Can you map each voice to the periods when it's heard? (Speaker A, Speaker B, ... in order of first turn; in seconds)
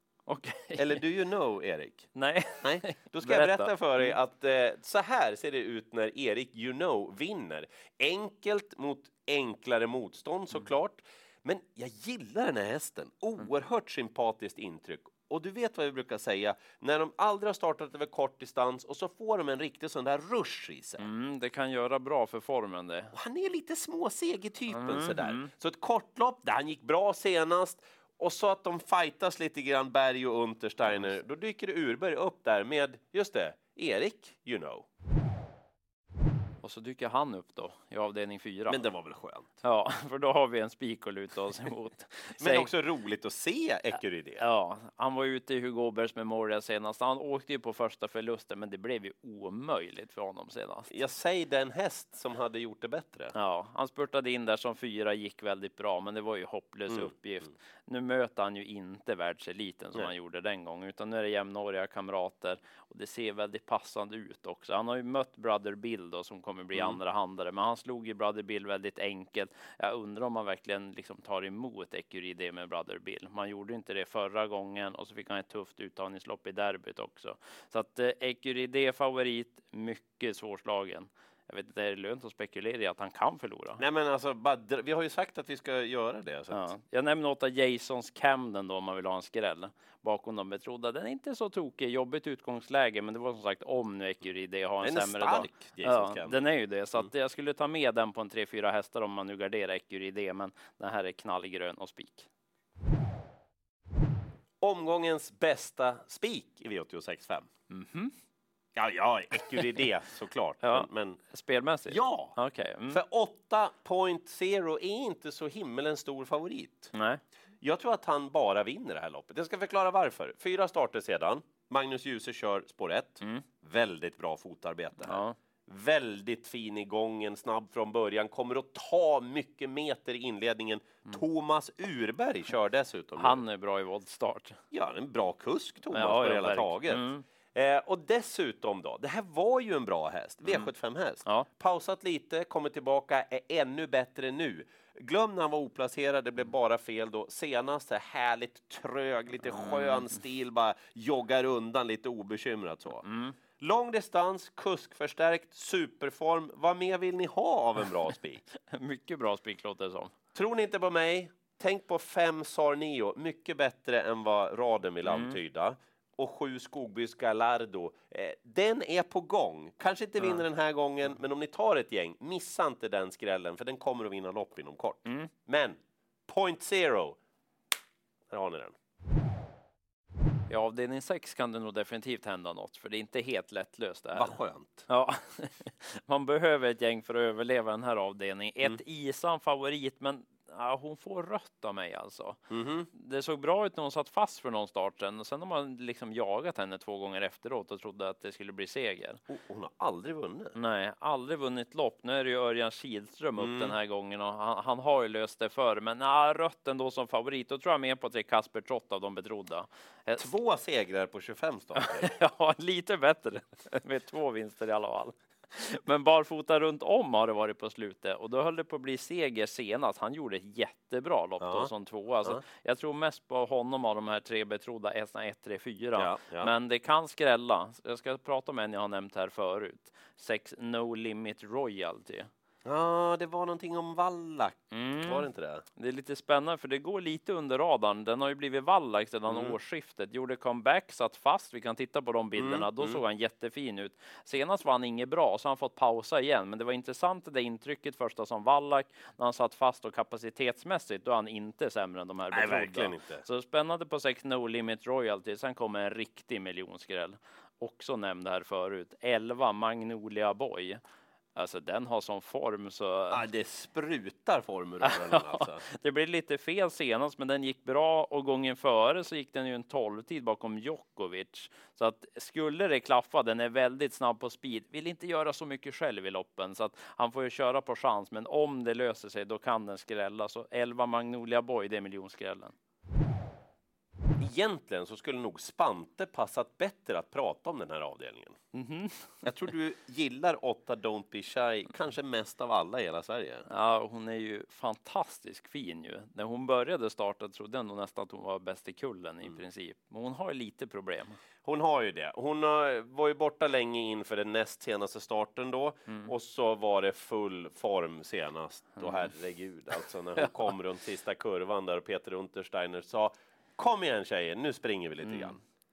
Speaker A: 0.3-1.0, 2.1-4.2, 21.0-23.1, 24.7-25.5, 30.9-31.2, 36.6-38.8, 39.6-42.7, 44.4-50.9, 53.3-83.8, 86.5-102.3, 107.7-108.1, 110.6-113.0, 116.9-117.2, 125.0-125.4, 133.2-134.6, 135.9-137.2, 149.5-150.1, 153.0-153.3, 158.7-160.1, 165.1-165.4, 175.1-175.3, 180.5-192.4, 192.9-199.2, 200.6-210.3, 211.8-232.3, 234.7-260.8, 261.4-263.3, 264.8-282.5, 288.5-289.2, 293.5-301.2, 308.8-309.1, 310.2-310.5, 315.0-315.4
Speaker B: 0.8-2.1, 2.6-21.1, 23.1-34.9, 38.7-39.5, 42.4-44.4, 50.9-53.3, 56.9-57.1, 66.7-67.0, 83.8-86.7, 94.8-96.4, 104.6-107.5, 108.8-111.2, 111.9-112.4, 112.9-116.9, 117.6-133.4, 134.7-153.0, 153.6-158.4, 160.3-177.2, 178.3-178.8, 184.2-184.9, 192.5-192.9, 199.3-200.6, 203.4-203.8, 210.2-212.1, 221.4-221.7, 226.0-226.5, 232.7-235.7, 239.3-239.6, 242.4-243.0, 252.3-253.2, 263.1-265.7, 284.2-288.4, 289.2-293.5, 301.4-315.4